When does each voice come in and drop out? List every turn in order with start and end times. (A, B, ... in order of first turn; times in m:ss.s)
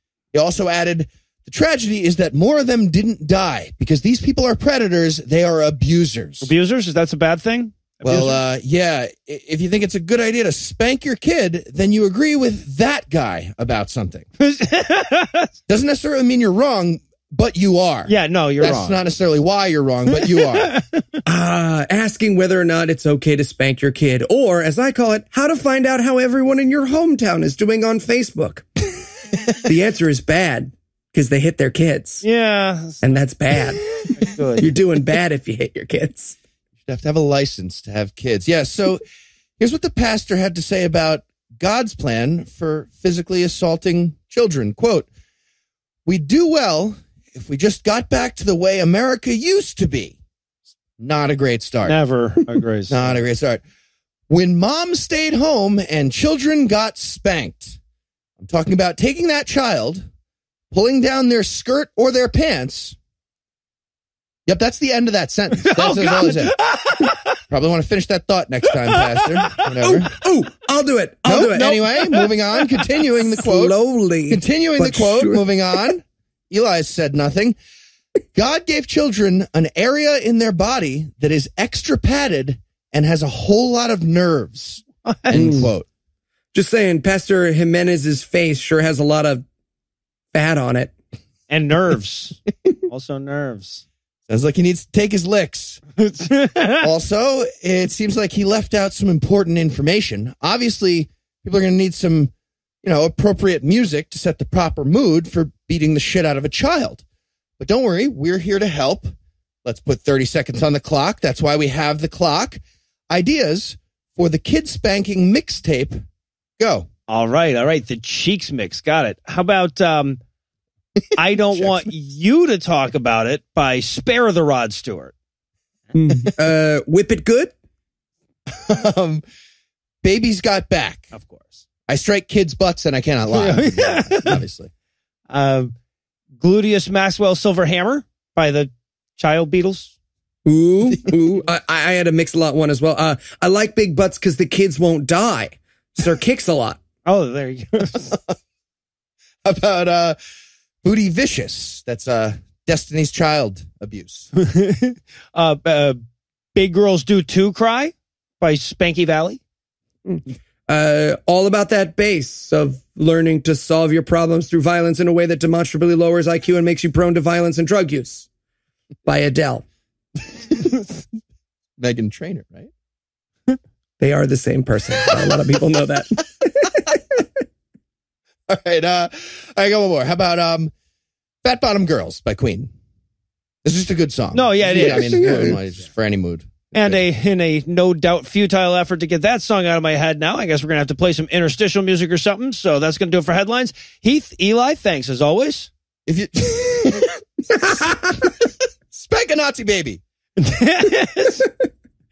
0:00.3-0:06.5 A
0:06.4-0:08.4 B
0:08.0-0:14.3 A
0:14.4-0:15.5 B
0:15.7-0:20.8 A
0:18.1-0:19.0 B
0:20.2-0:21.2 B
0:21.2-0:28.6 C
0:29.6-0:32.2 C
0:32.2-0:33.0 B
0:33.0-0:36.4 C
0:34.2-0:34.7 B
0:36.8-0:39.0 A
0:39.6-0:45.1 A
0:46.0-0:50.2 A
0:51.0-0:52.0 A
0:51.8-0:53.2 B
0:52.9-0:53.6 A
0:54.3-0:57.8 A
0:58.4-1:00.1 A
1:00.7-1:03.0 A
1:04.4-1:06.6 A
1:05.6-1:07.4 B
1:07.5-1:10.1 A
1:08.8-1:09.6 B
1:09.8-1:12.0 C
1:11.2-1:13.8 A
1:13.3-1:15.4 C
1:14.3-1:17.6 A
1:18.3-1:25.9 A
1:25.0-1:25.7 B
1:25.3-1:25.7 C
1:26.5-1:29.4 C
1:30.3-1:30.9 C
1:31.5-1:33.8 B
1:34.3-1:35.8 A
1:36.0-1:36.9 B
1:36.8-1:42.3 A
1:42.8-1:47.0 A
1:47.6-1:49.1 A
1:49.6-1:56.0 A
1:56.6-1:56.9 A
1:57.1-2:00.2 B
2:01.2-2:05.1 B
2:05.9-2:07.5 C
2:08.5-2:09.2 A
2:10.0-2:11.1 A
2:11.1-2:11.6 B
2:11.9-2:14.7 A
2:13.3-2:14.4 B
2:15.3-2:15.7 B
2:16.4-2:19.9 B
2:20.4-2:26.8 C
2:27.0-2:28.2 B
2:29.4-2:30.2 A
2:30.8-2:34.3 A
2:34.4-2:36.0 B
2:36.5-2:39.4 B
2:40.0-2:48.3 C
2:49.0-2:49.6 C
2:51.8-2:52.7 A
2:54.0-2:57.0 C
2:58.5-3:00.7 A
3:01.4-3:02.7 A
3:03.6-3:07.0 A
3:04.3-3:05.6 B
3:04.7-3:05.6 C
3:06.7-3:15.7 B
3:16.1-3:18.2 A
3:18.9-3:20.0 A
3:20.4-3:21.5 B